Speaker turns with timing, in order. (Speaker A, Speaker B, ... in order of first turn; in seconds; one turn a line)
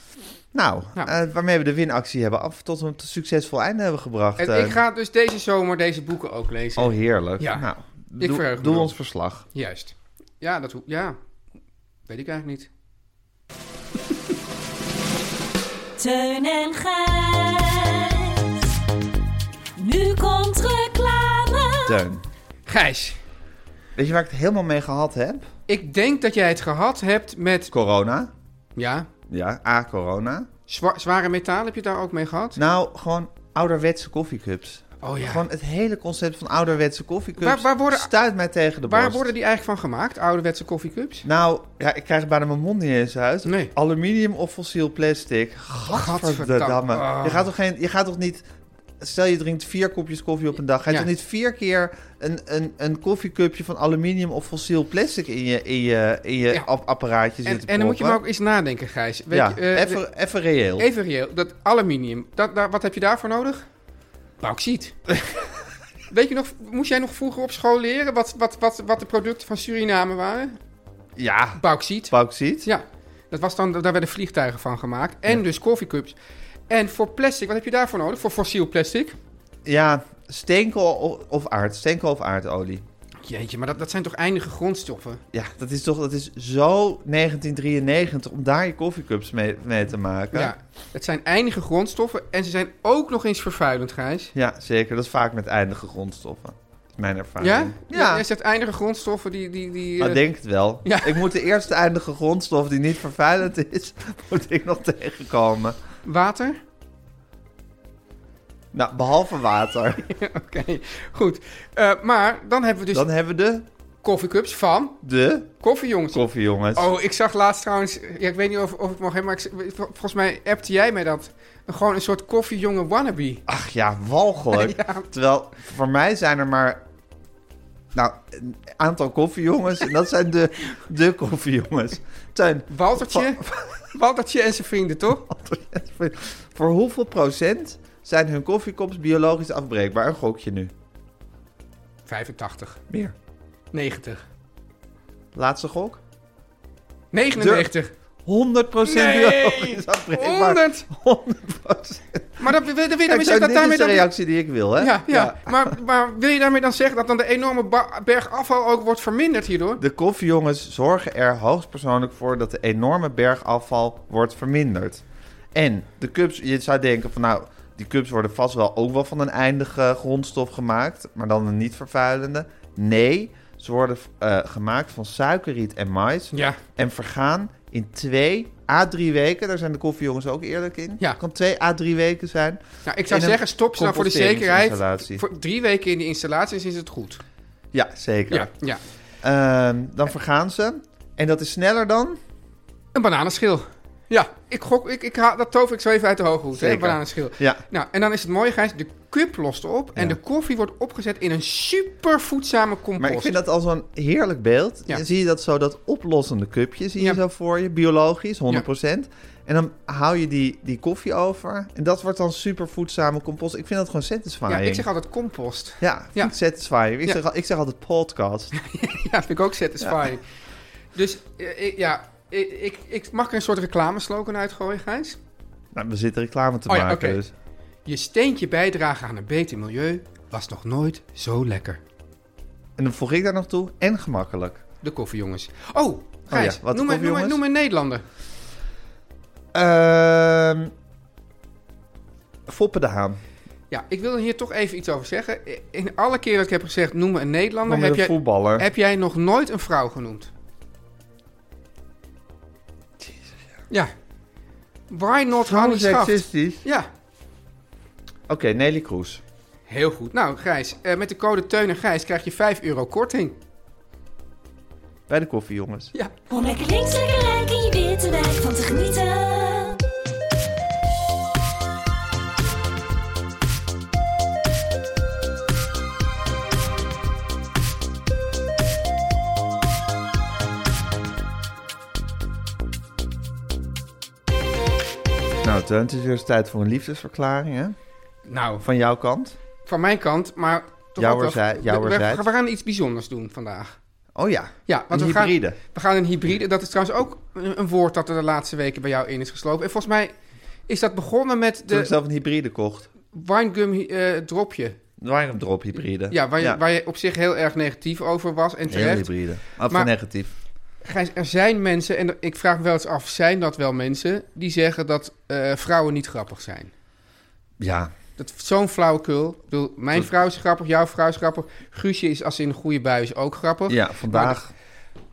Speaker A: 0.5-4.8
Speaker B: 4.4-7.7
Speaker A: 6.8-9.4
Speaker B: 8.2-8.9
Speaker B: 9.5-11.2
Speaker B: 12.1-12.7
Speaker C: 16.0-18.7
Speaker C: 19.8-22.0
Speaker A: 21.8-22.2
Speaker B: 22.6-23.2
Speaker A: 23.9-25.5
Speaker B: 25.7-27.7
Speaker A: 27.7-28.3
Speaker B: 28.8-29.1
Speaker A: 29.3-30.5
Speaker B: 30.7-32.6
Speaker A: 32.5-39.3
Speaker B: 35.0-35.4
Speaker B: 37.4-38.1
Speaker B: 38.8-41.2
Speaker A: 41.2-48.4
Speaker B: 43.4-43.7
Speaker B: 45.9-47.5
Speaker A: 49.0-58.2
Speaker B: 57.4-60.0
Speaker A: 59.3-60.9
Speaker B: 60.8-63.6
Speaker B: 64.4-65.0
Speaker B: 66.1-70.6
Speaker A: 71.2-72.7
Speaker B: 71.6-76.2
Speaker B: 76.7-79.2
Speaker A: 79.6-82.8
Speaker B: 83.2-85.2
Speaker A: 85.3-90.5
Speaker B: 90.3-94.3
Speaker A: 94.3-98.2
Speaker B: 97.4-100.2
Speaker A: 100.0-105.8
Speaker B: 100.8-101.2
Speaker B: 106.0-106.6
Speaker A: 108.7-110.0
Speaker B: 110.0-113.0
Speaker A: 112.9-113.7
Speaker B: 114.0-115.0
Speaker A: 115.0-115.5
Speaker B: 115.6-116.2
Speaker A: 116.1-116.9
Speaker B: 116.7-123.4
Speaker A: 123.5-126.8
Speaker B: 124.5-125.0
Speaker A: 127.9-133.9
Speaker B: 132.7-135.2
Speaker A: 135.2-140.7
Speaker B: 142.1-142.8
Speaker B: 143.7-144.2
Speaker A: 145.3-146.0
Speaker B: 147.1-147.9
Speaker A: 147.3-147.7
Speaker A: 148.2-152.5
Speaker B: 148.8-150.9
Speaker B: 152.4-154.1
Speaker A: 153.1-155.7
Speaker B: 154.8-159.8
Speaker A: 159.8-185.2
Speaker B: 176.3-176.6
Speaker B: 182.8-187.2
Speaker A: 187.7-188.5
Speaker B: 188.3-188.8
Speaker A: 189.2-192.2
Speaker B: 192.9-203.4
Speaker A: 196.5-197.6
Speaker A: 203.0-214.8
Speaker B: 214.5-216.3
Speaker A: 215.8-218.5
Speaker B: 218.5-220.2
Speaker A: 219.8-220.1
Speaker B: 220.9-225.2
Speaker A: 225.7-227.3
Speaker B: 226.7-227.2
Speaker B: 227.8-231.8
Speaker A: 232.8-234.6
Speaker B: 234.8-238.0
Speaker A: 236.3-237.4
Speaker A: 239.5-240.7
Speaker A: 242.5-243.2
Speaker B: 243.7-250.3
Speaker A: 247.7-248.7
Speaker B: 254.9-256.9
Speaker A: 255.4-256.6
Speaker A: 258.3-259.2
Speaker B: 259.7-263.4
Speaker A: 265.1-265.9
Speaker C: 266.3-269.8
Speaker A: 285.4-287.8
Speaker B: 288.3-288.6
Speaker A: 288.6-289.4
Speaker B: 289.6-293.8
Speaker A: 291.0-292.2
Speaker A: 294.1-295.6
Speaker B: 294.7-300.1
Speaker B: 300.7-301.9
Speaker A: 301.7-302.9
Speaker B: 303.1-304.8
Speaker A: 305.0-306.6
Speaker B: 306.1-309.1
Speaker A: 308.7-310.3
Speaker B: 310.8-316.7
Speaker A: 317.6-317.9
Speaker B: 318.2-324.4
Speaker A: 323.7-324.5